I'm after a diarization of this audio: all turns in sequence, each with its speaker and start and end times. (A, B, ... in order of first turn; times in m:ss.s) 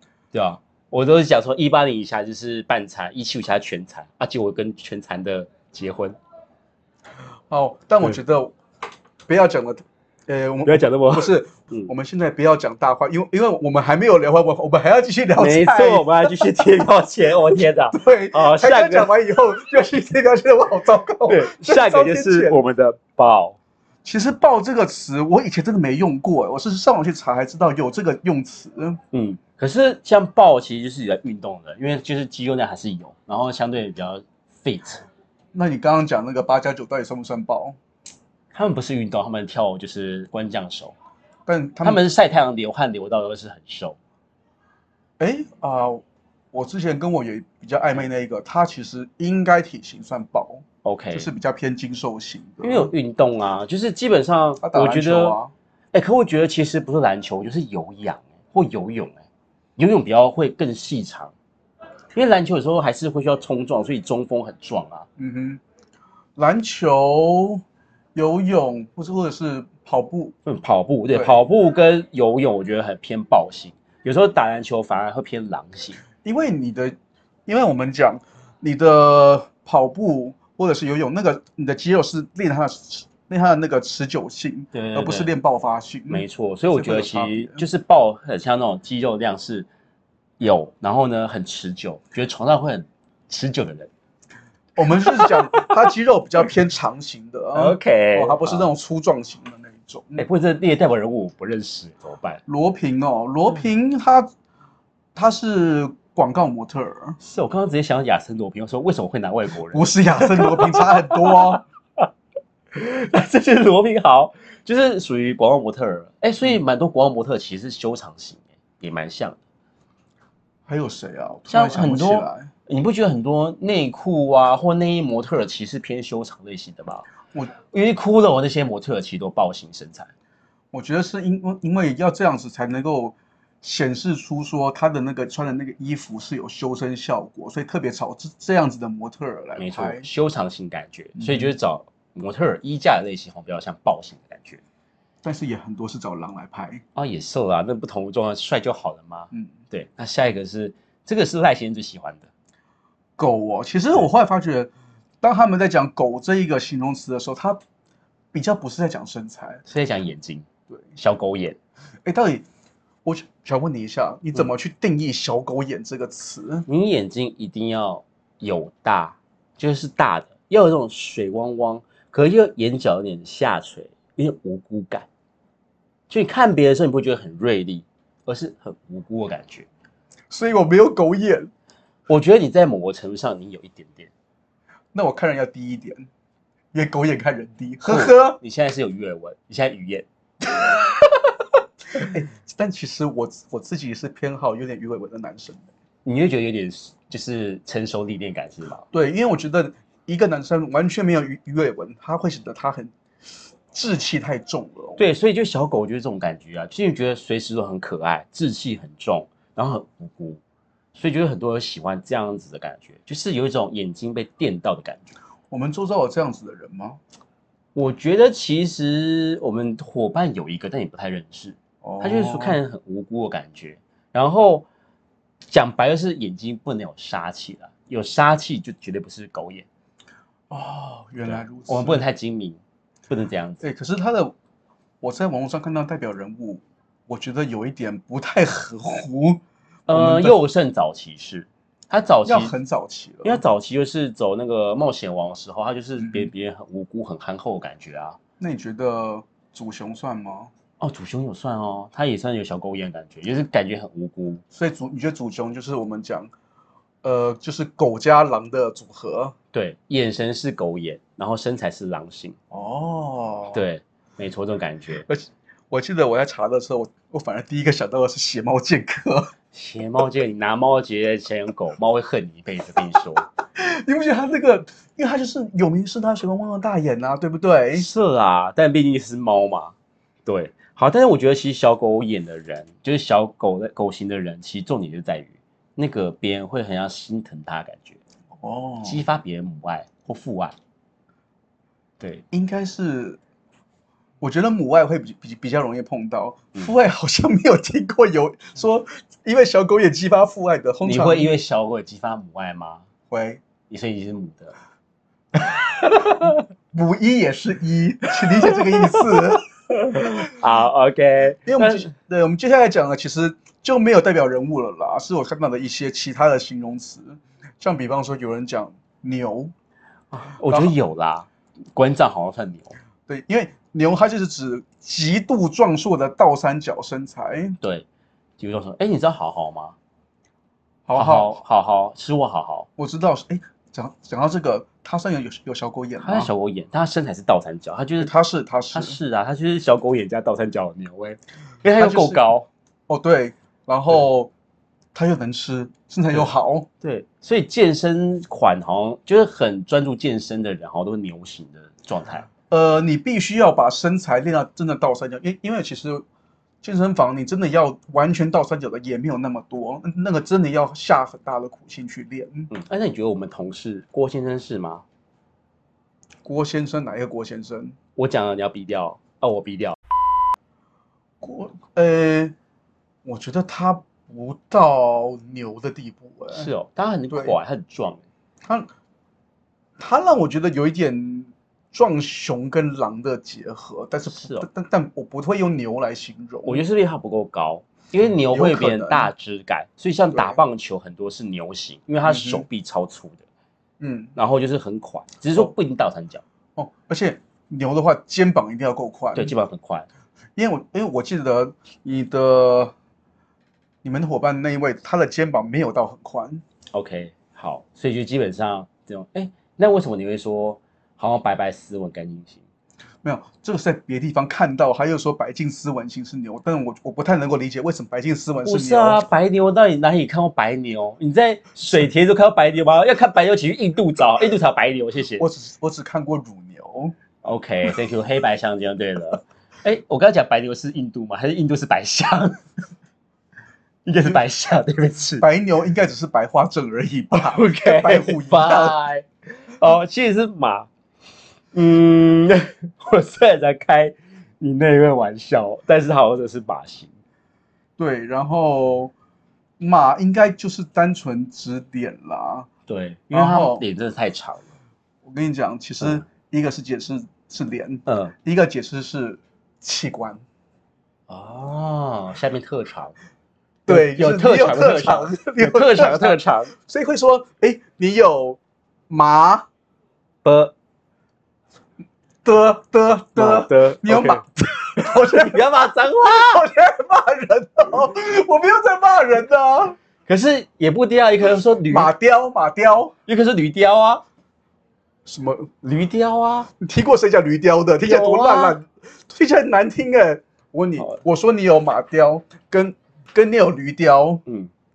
0:00.3-0:06.2 A
0:07.5-0:08.6 B
0:09.3-0:16.6 B
0:10.6-0:11.9 A
0:15.4-0:19.1 A
0:17.9-0:22.6 B
0:21.2-0:23.6 A
0:24.0-0:29.0 B
0:29.1-0:35.0 A
0:35.5-0:37.8 B
0:38.5-0:40.9 A
0:41.4-0:42.0 B
0:41.8-0:44.0 A
0:45.2-0:52.9 B
0:50.8-0:51.3 A
0:52.6-0:55.4 A
0:54.6-0:55.5 B
0:55.9-0:59.2 A
0:59.8-1:01.3 A
1:02.1-1:05.1 A
1:05.2-1:05.6 B
1:06.4-1:07.6 B
1:08.1-1:10.3 B
1:10.4-1:16.0 A
1:11.1-1:11.4 B
1:16.2-1:17.0 B
1:17.5-1:27.6 B
1:24.7-1:25.3 A
1:26.1-1:29.7 A
1:30.4-1:33.9 A
1:34.8-1:40.2 B
1:34.9-1:35.8 A
1:37.5-1:38.7 A
1:40.2-1:42.4 A
1:42.5-1:44.3 B
1:45.1-1:47.2 B
1:47.2-1:52.1 A
1:49.7-1:51.6 B
1:52.7-1:59.4 A
2:00.7-2:02.5 B
2:01.5-2:07.1 A
2:07.7-2:10.1 A
2:10.7-2:20.1 B
2:19.6-2:24.6 A
2:21.2-2:21.5 B
2:25.2-2:26.8 B
2:27.0-2:32.3 A
2:33.2-2:34.7 B
2:35.2-2:37.6 B
2:38.3-2:39.6 B
2:39.6-2:41.6 A
2:42.0-2:42.4 B
2:43.0-2:46.6 B
2:46.6-2:55.1 A
2:56.1-2:59.7 A
3:00.3-3:01.5 B
3:02.1-3:04.1 A
3:04.9-3:06.1 B
3:06.7-3:08.4 B
3:07.8-3:10.0 A
3:11.9-3:15.7 B
3:16.0-3:18.8 A
3:18.9-3:22.9 B
3:23.7-3:25.0 B
3:25.0-3:30.4 A
3:30.9-3:35.1 A
3:35.5-3:37.0 B
3:37.7-3:44.7 A
3:41.8-3:42.6 B
3:45.5-3:49.6 A
3:50.5-3:52.0 B
3:51.2-3:53.6 A
3:53.6-3:54.3 B
3:55.0-4:00.4 B
3:59.9-4:02.5 A
4:02.2-4:03.4 B
4:03.2-4:08.2 A
4:06.0-4:06.3 B
4:08.4-4:10.5 B
4:10.8-4:14.4 A
4:14.5-4:16.3 B
4:17.0-4:19.3 B
4:19.5-4:22.4 A
4:22.5-4:23.6 B
4:23.5-4:25.0 A
4:25.0-4:29.3 B
4:29.5-4:33.3 A
4:33.6-4:37.9 B
4:37.7-4:39.7 A
4:40.2-4:48.0 A
4:48.4-4:49.0 B
4:48.8-4:50.6 A
4:52.0-4:52.2 A
4:52.3-4:53.2 B
4:54.2-5:01.3 B
5:00.8-5:02.8 A
5:03.1-5:03.4 B
5:03.7-5:04.6 A
5:05.3-5:10.3 B
5:05.8-5:06.4 A
5:08.4-5:09.1 A
5:10.0-5:11.9 A
5:11.5-5:19.5 B
5:20.1-5:22.8 A
5:20.5-5:20.7 B
5:23.1-5:27.6 B
5:27.6-5:27.8 A
5:28.4-5:29.8 A
5:30.8-5:31.3 B
5:30.9-5:32.7 A
5:32.8-5:36.3 B
5:36.0-5:38.1 A
5:38.0-5:39.0 B
5:38.7-5:42.5 A
5:41.8-5:42.2 B
5:42.9-5:44.3 B
5:44.9-5:46.7 B
5:46.8-5:52.3 A
5:52.5-5:56.0 B
5:56.6-6:02.5 B
6:02.5-6:04.8 A
6:06.2-6:07.8 B
6:08.0-6:09.8 A
6:11.2-6:12.3 B
6:13.0-6:16.5 B
6:16.3-6:18.0 A
6:17.1-6:17.4 B
6:18.4-6:18.7 B
6:19.8-6:26.6 B
6:24.1-6:24.5 A
6:26.4-6:33.2 A
6:28.3-6:29.1 B
6:30.1-6:30.4 B
6:32.0-6:32.4 B
6:33.8-6:34.1 B
6:34.2-6:36.2 A
6:36.6-6:39.3 B
6:39.1-6:39.9 A
6:40.4-6:42.7 B
6:43.8-6:46.4 B
6:46.7-6:52.4 A
6:53.0-6:59.0 B
6:58.4-7:05.2 A
7:05.2-7:06.9 B
7:07.2-7:12.4 A
7:13.8-7:15.2 A
7:15.2-7:18.8 B
7:17.2-7:20.7 A
7:21.5-7:26.9 A
7:27.8-7:28.9 B
7:29.6-7:32.5 B
7:32.7-7:34.5 A
7:33.1-7:33.6 B
7:35.0-7:40.2 B
7:37.9-7:38.1 A
7:41.1-7:43.0 A
7:43.7-7:49.4 B
7:43.7-7:46.5 A
7:50.2-7:50.5 A
7:52.2-7:55.4 B
7:53.2-7:54.2 A
7:55.0-7:56.4 A
7:56.1-7:59.8 B
8:00.1-8:01.9 A
8:01.7-8:02.9 B
8:03.0-8:04.0 A
8:05.0-8:05.5 B
8:05.6-8:06.5 A
8:06.6-8:14.2 B
8:07.8-8:08.6 A